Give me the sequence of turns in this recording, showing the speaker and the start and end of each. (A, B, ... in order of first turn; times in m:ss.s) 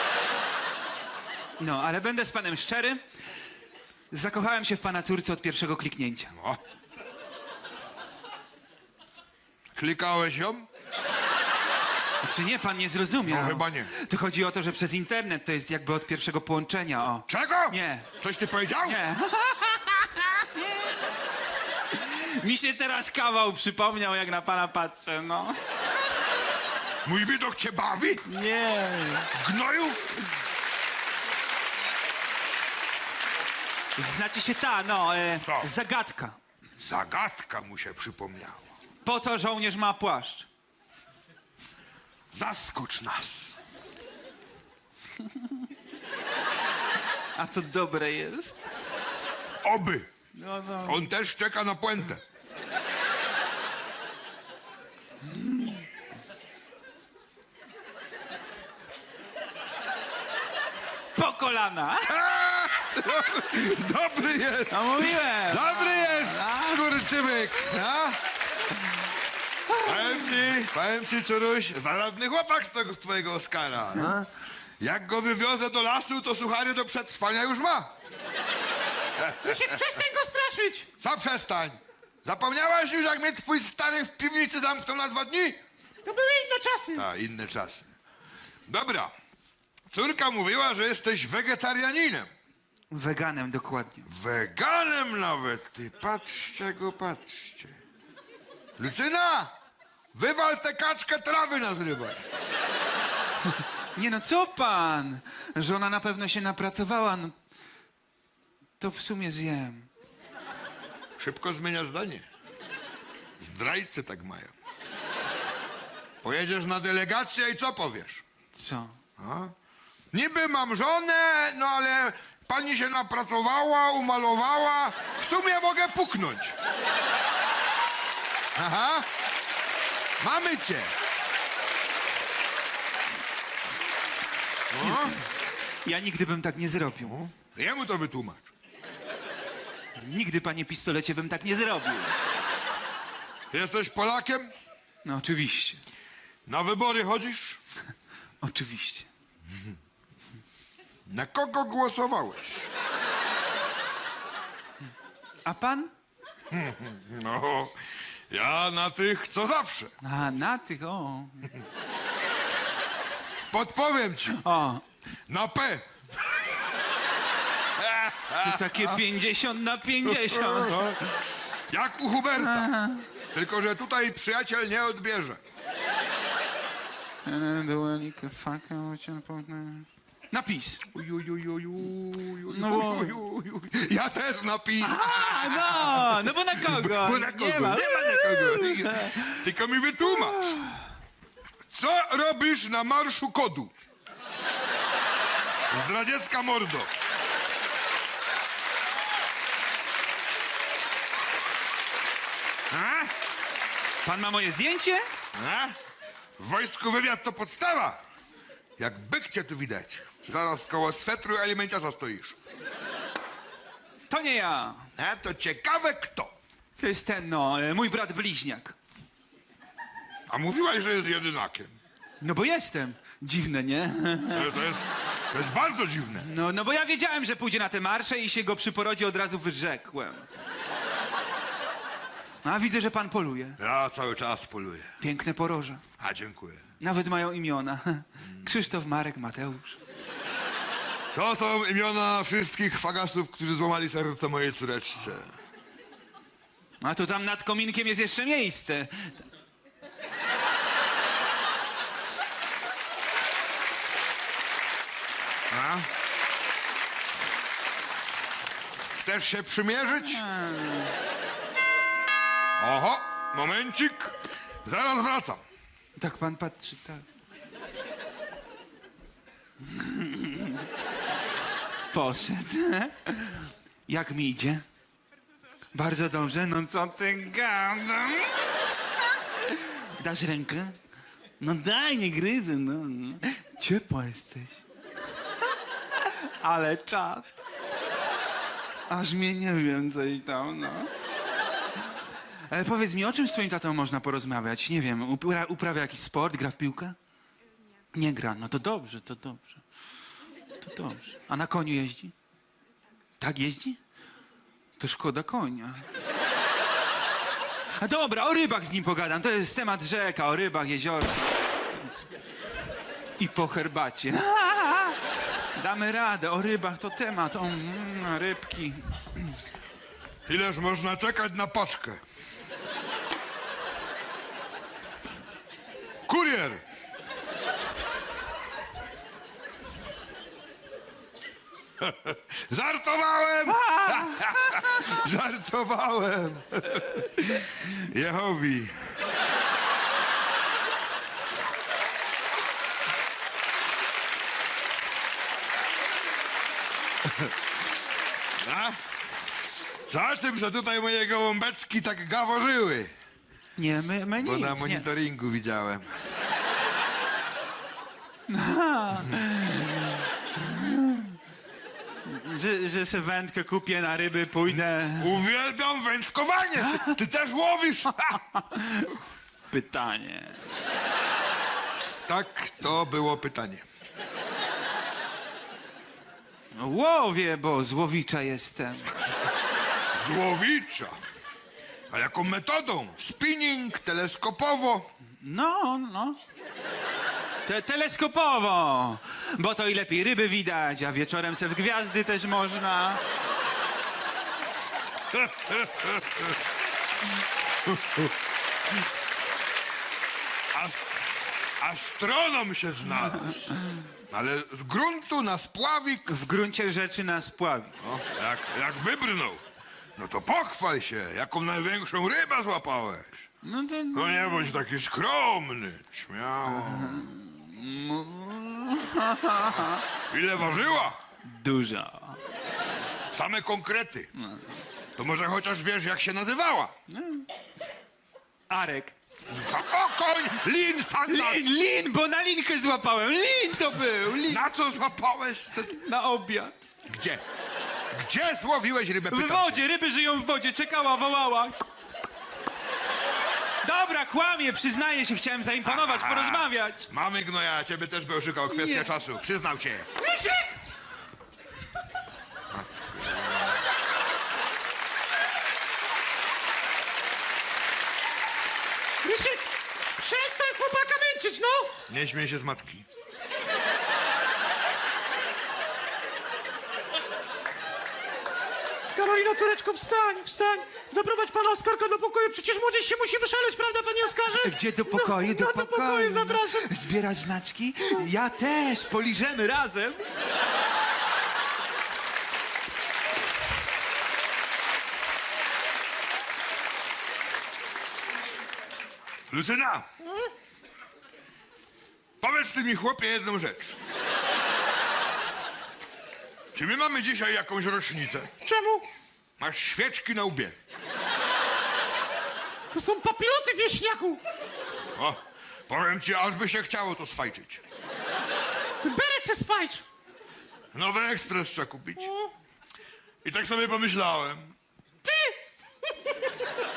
0:01.6-0:03.0 A
0:04.1-0:06.4 A
0:06.3-0:06.6 B
0:09.7-0:10.7 B
0:12.2-0:18.1 A
0:13.2-0:13.9 B
0:17.3-0:19.0 B
0:18.8-0:20.9 A
0:21.9-0:25.6 A
0:27.0-0:28.2 B
0:28.2-0:29.3 A
0:29.3-0:30.1 B
0:34.0-0:36.4 A
0:35.4-0:35.7 B
0:36.8-0:38.7 B
0:39.0-0:40.5 A
0:42.3-0:43.6 B
0:47.4-0:48.6 A
0:49.6-0:50.1 B
0:50.4-0:51.1 A
0:50.8-0:52.2 B
0:55.2-0:55.8 A
1:01.2-1:02.2 A
1:02.0-1:08.2 B
1:04.7-1:07.0 A
1:09.7-1:10.3 A
1:09.8-1:17.9 B
1:19.2-1:19.8 B
1:19.4-1:20.9 C
1:21.0-1:25.6 B
1:26.0-1:27.1 C
1:27.0-1:27.9 B
1:28.7-1:29.1 B
1:29.9-1:32.3 B
1:32.9-1:34.1 A
1:34.1-1:37.8 B
1:38.8-1:39.5 B
1:40.1-1:42.2 B
1:44.0-1:47.4 A
1:48.8-1:49.9 A
1:51.2-1:52.3 B
1:53.4-1:54.5 B
1:56.2-1:58.2 B
1:58.5-1:59.0 A
1:59.2-1:59.5 B
2:00.1-2:06.6 B
2:08.6-2:09.1 B
2:10.2-2:10.9 B
2:14.7-2:15.2 B
2:14.8-2:15.2 A
2:15.8-2:17.2 A
2:17.0-2:18.5 B
2:20.0-2:22.2 A
2:23.5-2:24.5 B
2:25.0-2:25.8 A
2:26.5-2:27.6 B
2:28.4-2:29.1 A
2:31.1-2:32.7 B
2:35.4-2:35.9 A
2:36.5-2:40.0 B
2:40.0-2:41.5 A
2:43.5-2:44.4 B
2:44.4-2:44.8 A
2:45.3-2:45.9 B
2:47.8-2:49.0 B
2:48.4-2:51.0 A
2:50.0-2:51.0 B
2:51.7-2:52.7 B
2:52.4-2:53.0 A
2:53.3-2:55.4 B
2:57.2-3:00.8 A
3:00.9-3:10.6 B
3:02.5-3:03.2 A
3:04.8-3:09.4 A
3:10.1-3:10.8 A
3:11.7-3:13.8 B
3:15.7-3:16.9 B
3:22.7-3:23.1 B
3:24.0-3:25.0 A
3:25.4-3:25.8 B
3:26.4-3:28.0 B
3:28.8-3:32.4 B
3:34.1-3:34.9 A
3:35.0-3:36.3 B
3:36.8-3:38.8 A
3:40.3-3:41.8 B
3:42.2-3:44.6 A
3:44.3-3:46.3 B
3:46.2-3:50.3 A
3:52.4-3:53.6 A
3:53.6-3:55.0 B
3:55.0-3:55.8 A
3:56.0-3:56.7 B
3:56.8-3:59.8 A
4:01.1-4:05.4 B
4:06.8-4:09.2 A
4:15.5-4:15.9 B
4:19.0-4:20.2 B
4:20.0-4:20.9 A
4:22.6-4:25.4 B
4:26.0-4:27.0 A
4:29.6-4:30.7 A
4:31.9-4:34.6 A
4:35.7-4:38.4 A
4:39.4-4:40.8 A
4:41.4-4:44.6 A
4:46.0-4:47.3 A
4:48.9-4:50.9 A
4:52.5-4:57.0 A
4:57.9-4:59.6 A
5:00.6-5:02.1 A
5:03.2-5:03.8 A
5:04.8-5:05.9 A
5:07.8-5:11.4 A
5:13.2-5:15.0 A
5:15.6-5:19.3 A
5:20.3-5:22.0 B
5:26.1-5:26.6 B
5:31.8-5:38.8 B
5:33.6-5:34.4 A
5:47.0-5:47.3 B
5:48.4-5:48.8 B
5:49.9-5:52.9 B
5:53.6-5:54.9 A
5:54.2-5:55.9 B
5:58.3-6:01.2 A
6:02.0-6:05.2 A
6:04.5-6:08.2 B
6:08.2-6:09.0 A
6:09.5-6:10.4 A
6:12.1-6:13.6 B
6:16.5-6:18.9 A
6:19.9-6:21.0 B
6:21.9-6:24.9 B
6:25.2-6:26.2 A
6:27.5-6:33.0 A
6:35.1-6:36.4 B
6:37.6-6:38.1 B
6:40.5-6:41.0 B
6:41.6-6:43.6 B
6:44.1-6:46.1 B
6:46.1-6:47.7 A
6:47.8-6:49.4 B
6:50.0-6:53.3 B
6:53.4-6:54.6 A
6:53.9-6:57.1 B
6:56.5-6:59.8 A
6:59.4-7:01.0 B
7:01.2-7:02.2 A
7:03.1-7:04.1 B
7:04.2-7:04.4 A
7:05.0-7:06.7 B
7:06.9-7:07.3 A
7:08.5-7:09.0 A
7:09.3-7:11.4 B
7:11.1-7:14.4 A
7:14.2-7:15.8 B
7:15.6-7:16.6 A
7:16.9-7:17.2 B
7:17.9-7:19.6 B
7:19.1-7:21.7 A
7:23.6-7:26.9 A
7:25.6-7:29.9 B
7:30.0-7:30.6 C
7:32.5-7:33.6 B
7:39.0-7:41.7 C
7:41.9-7:42.9 B
7:49.0-7:56.7 C
7:54.3-8:00.0 A
8:09.3-8:09.9 B
8:12.2-8:13.8 B
8:16.5-8:18.3 B
8:18.4-8:18.9 C
8:19.4-8:20.6 B
8:22.7-8:24.2 C
8:25.0-8:27.6 B
8:28.8-8:29.8 C
8:30.7-8:32.1 B
8:33.2-8:34.6 B
8:35.0-8:35.4 C